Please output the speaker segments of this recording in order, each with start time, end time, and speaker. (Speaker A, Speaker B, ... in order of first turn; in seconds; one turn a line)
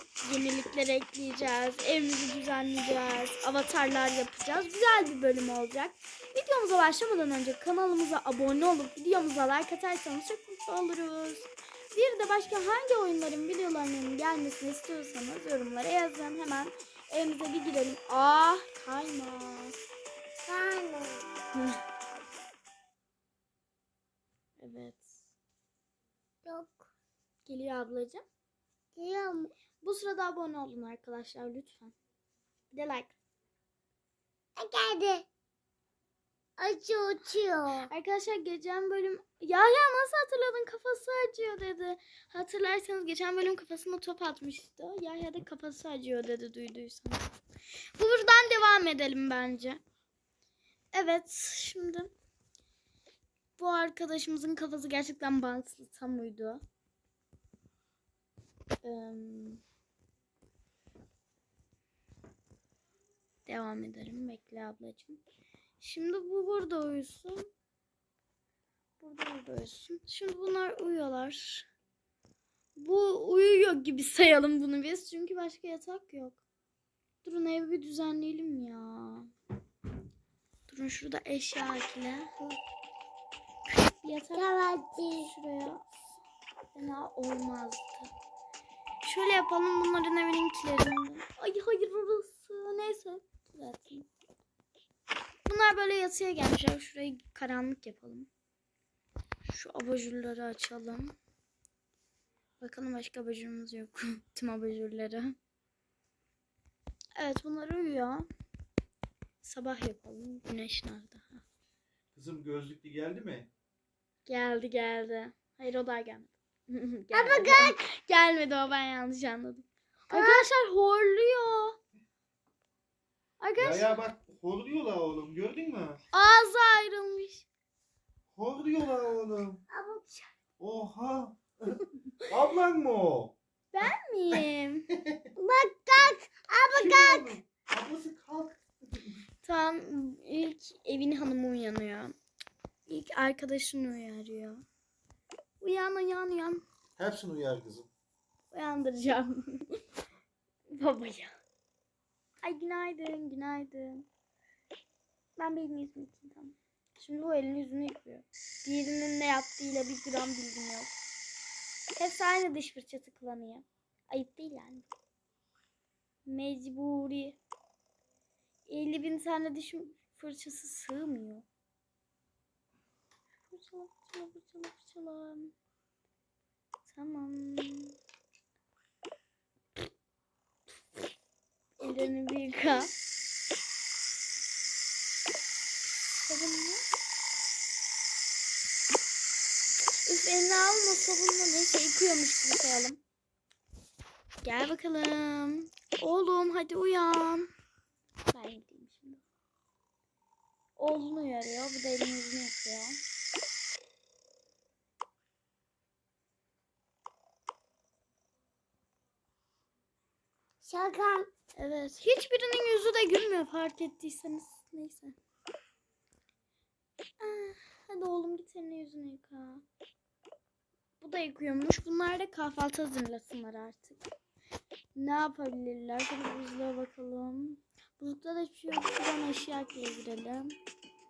Speaker A: 0.2-19.7
Speaker B: 20.4-21.2
Speaker A: 21.5-21.8
Speaker A: 24.6-25.1
Speaker B: 26.4-26.9
Speaker A: 27.4-28.2
Speaker B: 28.9-29.5
Speaker A: 29.8-31.9
Speaker A: 32.7-33.1
Speaker B: 34.6-35.3
Speaker B: 36.6-37.9
Speaker A: 37.9-47.2
Speaker A: 48.0-49.8
Speaker A: 50.9-52.1
Speaker A: 53.6-56.6
Speaker A: 58.8-59.6
Speaker A: 63.5-65.2
Speaker A: 65.8-67.5
Speaker A: 69.0-71.7
Speaker A: 72.8-76.4
Speaker A: 77.2-79.3
Speaker A: 80.7-82.3
Speaker A: 83.7-84.5
Speaker B: 84.3-85.3
Speaker A: 85.1-86.0
Speaker A: 86.7-88.1
Speaker A: 89.0-94.1
Speaker A: 95.5-98.3
Speaker A: 99.5-101.1
Speaker A: 102.6-105.3
Speaker A: 107.2-108.3
Speaker A: 109.4-111.4
Speaker C: 112.1-113.5
Speaker A: 114.2-121.8
Speaker B: 117.1-117.8
Speaker B: 120.1-120.4
Speaker A: 123.4-123.9
Speaker C: 123.6-126.0
Speaker A: 126.1-127.5
Speaker C: 128.3-129.6
Speaker B: 129.7-130.3
Speaker C: 130.6-133.3
Speaker A: 133.7-134.9
Speaker B: 135.4-137.4
Speaker C: 136.7-139.2
Speaker A: 139.4-142.1
Speaker A: 142.9-144.6
Speaker A: 145.6-146.6
Speaker C: 147.0-147.9
Speaker A: 148.5-149.8
Speaker A: 150.7-151.3
Speaker A: 152.4-154.1
Speaker A: 155.4-160.9
Speaker A: 161.9-164.9
Speaker A: 166.2-167.4
Speaker A: 168.7-171.4
Speaker A: 173.5-175.5
Speaker A: 176.8-178.0
Speaker A: 181.8-182.9
Speaker B: 181.8-182.1
Speaker A: 186.2-186.8
Speaker A: 190.0-193.0
Speaker A: 194.4-197.5
Speaker A: 198.3-199.2
Speaker A: 200.8-203.0
Speaker B: 210.6-211.3
Speaker A: 211.6-215.2
Speaker A: 217.2-219.6
Speaker A: 221.0-224.1
Speaker A: 224.9-230.6